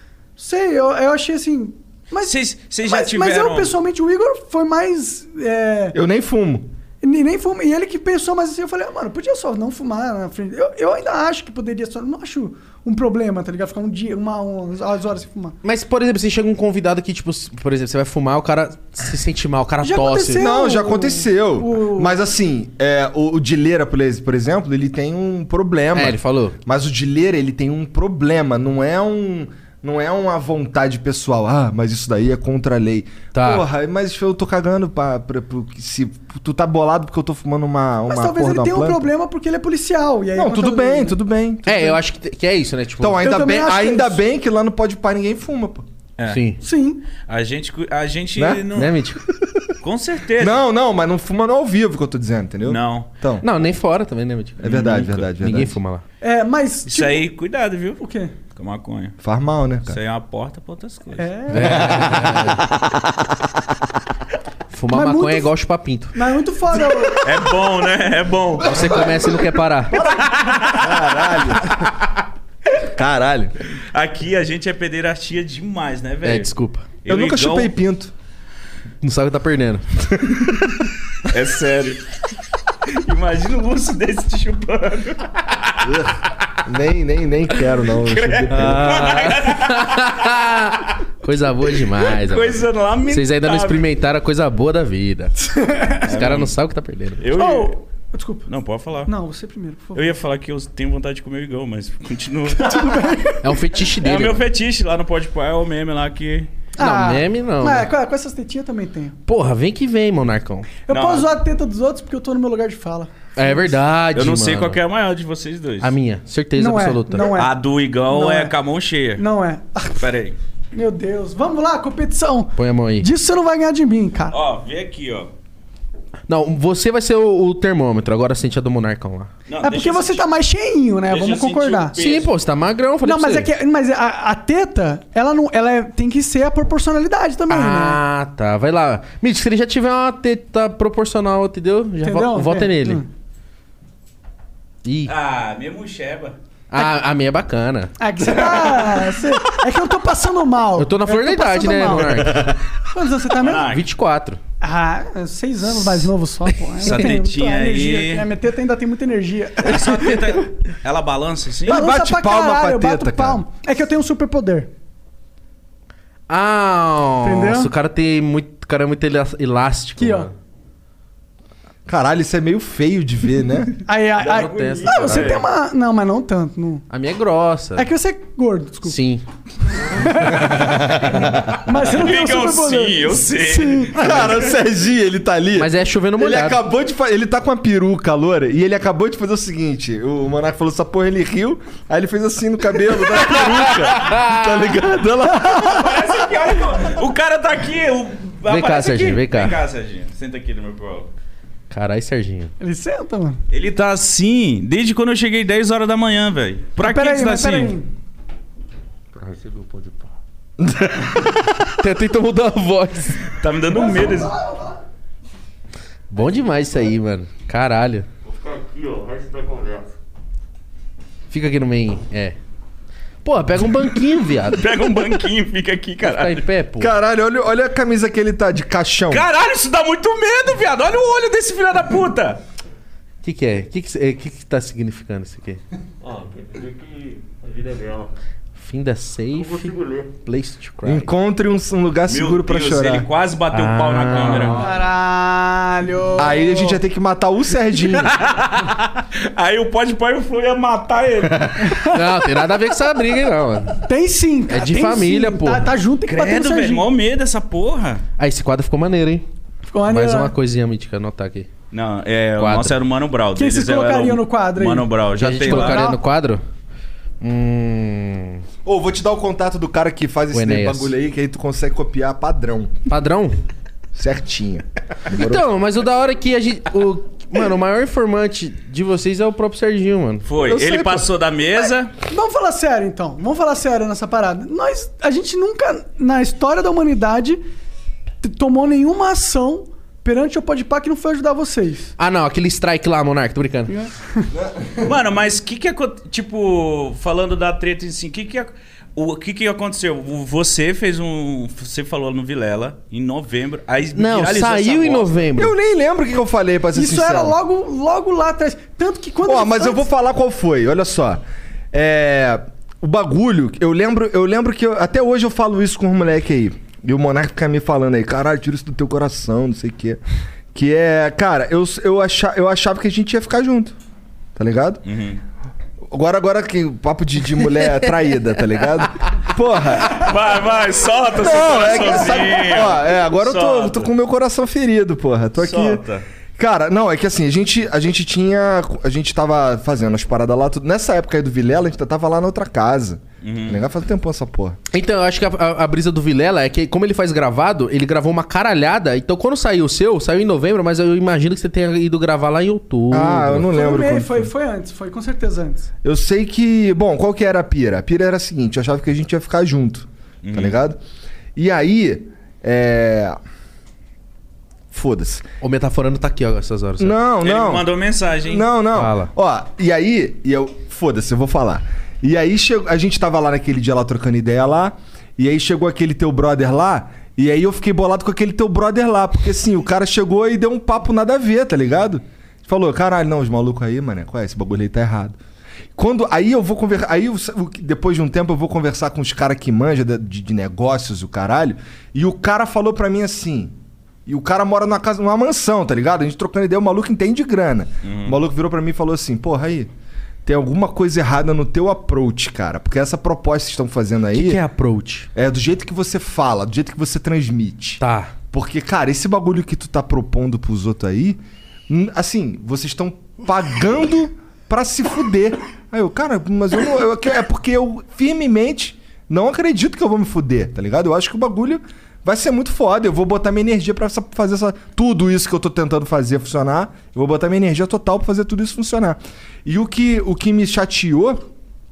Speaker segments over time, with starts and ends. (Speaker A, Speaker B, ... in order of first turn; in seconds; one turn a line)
Speaker A: 0.4-6.0
Speaker B: 2.2-3.7
Speaker C: 5.9-6.7
Speaker A: 7.0-15.6
Speaker D: 15.6-20.4
Speaker A: 19.8-22.1
Speaker C: 20.4-39.1
Speaker D: 25.9-26.6
Speaker D: 33.3-33.6
Speaker A: 38.1-41.2
Speaker C: 40.4-42.0
Speaker D: 41.7-43.3
Speaker C: 43.0-45.9
Speaker A: 43.2-44.2
Speaker D: 46.3-46.6
Speaker A: 46.6-47.0
Speaker B: 47.2-48.9
Speaker C: 48.4-49.7
Speaker D: 48.8-49.2
Speaker B: 49.8-50.6
Speaker C: 50.4-53.5
Speaker B: 52.6-53.1
Speaker D: 53.4-56.0
Speaker C: 54.6-55.8
Speaker A: 56.2-57.3
Speaker B: 56.9-58.0
Speaker A: 58.0-58.3
Speaker B: 58.5-59.2
Speaker C: 59.2-60.0
Speaker B: 59.9-61.3
Speaker A: 61.2-62.2
Speaker D: 61.5-62.6
Speaker D: 64.7-66.2
Speaker A: 64.9-65.5
Speaker A: 66.1-67.3
Speaker B: 67.2-69.1
Speaker D: 68.6-70.0
Speaker B: 70.0-71.7
Speaker C: 70.7-71.7
Speaker C: 72.8-73.5
Speaker B: 73.9-76.5
Speaker D: 76.2-76.9
Speaker B: 77.0-77.7
Speaker C: 77.1-78.1
Speaker D: 79.0-79.9
Speaker B: 81.2-82.0
Speaker B: 82.9-85.8
Speaker C: 86.7-89.2
Speaker B: 88.0-90.3
Speaker D: 88.5-95.3
Speaker B: 92.1-93.8
Speaker A: 95.5-96.1
Speaker B: 96.0-96.5
Speaker D: 96.0-97.2
Speaker B: 97.2-97.8
Speaker A: 97.3-98.5
Speaker B: 98.5-99.1
Speaker A: 99.1-100.1
Speaker B: 99.9-103.0
Speaker A: 102.5-103.6
Speaker D: 103.4-104.4
Speaker B: 104.0-106.5
Speaker A: 106.8-109.2
Speaker D: 106.8-107.9
Speaker D: 109.3-110.7
Speaker A: 110.9-113.7
Speaker B: 110.9-111.3
Speaker D: 113.4-114.8
Speaker B: 114.1-115.9
Speaker D: 115.8-117.4
Speaker A: 116.6-118.5
Speaker B: 117.2-119.2
Speaker A: 119.2-120.1
Speaker B: 120.0-120.4
Speaker A: 120.7-124.4
Speaker D: 122.6-123.1
Speaker B: 124.3-125.3
Speaker D: 126.3-129.3
Speaker B: 129.5-130.2
Speaker A: 129.6-132.0
Speaker B: 131.1-132.3
Speaker D: 132.0-133.5
Speaker A: 133.0-138.0
Speaker D: 137.5-143.0
Speaker A: 142.0-143.1
Speaker D: 144.8-145.1
Speaker B: 145.1-146.4
Speaker D: 146.7-147.9
Speaker A: 148.0-153.7
Speaker D: 150.8-152.6
Speaker B: 153.4-153.8
Speaker D: 153.7-154.4
Speaker A: 154.6-160.4
Speaker B: 156.8-158.3
Speaker B: 159.6-161.8
Speaker C: 161.7-163.4
Speaker A: 161.7-164.7
Speaker D: 166.3-170.3
Speaker A: 167.2-167.7
Speaker A: 170.0-170.3
Speaker C: 171.9-173.7
Speaker A: 173.9-176.8
Speaker D: 174.2-175.4
Speaker B: 174.3-175.4
Speaker D: 176.9-177.9
Speaker A: 177.8-179.0
Speaker D: 178.8-179.2
Speaker A: 179.8-181.0
Speaker A: 181.7-184.1
Speaker B: 181.7-184.5
Speaker C: 183.9-196.2
Speaker D: 185.6-186.6
Speaker D: 193.9-194.7
Speaker B: 195.6-201.1
Speaker D: 198.5-199.6
Speaker D: 201.7-202.5
Speaker A: 202.6-203.4
Speaker B: 203.5-207.8
Speaker A: 206.8-207.9
Speaker E: 209.2-210.0
Speaker C: 210.6-211.6
Speaker D: 211.8-213.2
Speaker B: 213.4-214.3
Speaker A: 213.7-214.8
Speaker D: 216.1-218.1
Speaker E: 218.3-219.9
Speaker D: 221.3-222.4
Speaker D: 223.2-224.7
Speaker B: 224.5-226.4
Speaker D: 226.0-226.9
Speaker C: 226.8-229.3
Speaker B: 229.1-232.4
Speaker D: 233.2-235.6
Speaker E: 236.0-238.1
Speaker D: 238.6-241.1
Speaker E: 239.4-240.1
Speaker C: 240.8-243.1
Speaker B: 242.1-244.7
Speaker D: 243.5-244.6
Speaker A: 244.6-246.8
Speaker C: 246.2-248.2
Speaker B: 247.9-251.8
Speaker A: 251.6-252.1
Speaker D: 251.8-253.8
Speaker A: 253.9-256.9
Speaker D: 254.5-255.7
Speaker B: 256.1-258.0
Speaker D: 258.2-259.2
Speaker A: 259.7-260.3
Speaker D: 259.9-261.5
Speaker B: 261.7-265.8
Speaker D: 262.4-262.8
Speaker A: 263.4-264.9
Speaker D: 265.1-266.4
Speaker A: 265.4-266.0
Speaker D: 267.2-268.4
Speaker C: 268.6-272.7
Speaker D: 270.3-270.9
Speaker D: 272.9-273.4
Speaker C: 273.9-275.5
Speaker D: 275.1-280.2
Speaker B: 280.2-281.9
Speaker C: 280.4-281.1
Speaker A: 282.1-287.4
Speaker A: 288.2-291.9
Speaker D: 292.0-293.8
Speaker A: 293.7-294.3
Speaker C: 294.4-294.9
Speaker B: 294.8-305.2
Speaker D: 303.9-305.5
Speaker C: 305.4-307.4
Speaker A: 306.7-309.9
Speaker C: 309.2-320.0
Speaker C: 320.5-323.8
Speaker C: 324.4-324.8
Speaker B: 324.9-325.2
Speaker C: 325.9-330.1
Speaker B: 329.8-333.9
Speaker C: 331.1-335.8
Speaker B: 335.4-336.1
Speaker C: 336.4-344.6
Speaker B: 343.2-343.6
Speaker D: 344.7-353.5
Speaker C: 352.9-354.3
Speaker A: 353.5-355.7
Speaker C: 355.8-360.8
Speaker B: 360.2-360.6
Speaker C: 361.4-363.2
Speaker C: 364.7-365.2
Speaker D: 365.4-367.0
Speaker C: 366.8-367.7
Speaker B: 367.2-368.5
Speaker C: 368.3-385.2
Speaker D: 368.8-369.1
Speaker C: 385.8-393.5
Speaker C: 394.1-399.7
Speaker B: 397.8-398.2
Speaker C: 400.2-404.4
Speaker D: 404.1-405.1
Speaker C: 405.1-431.2
Speaker D: 407.8-408.1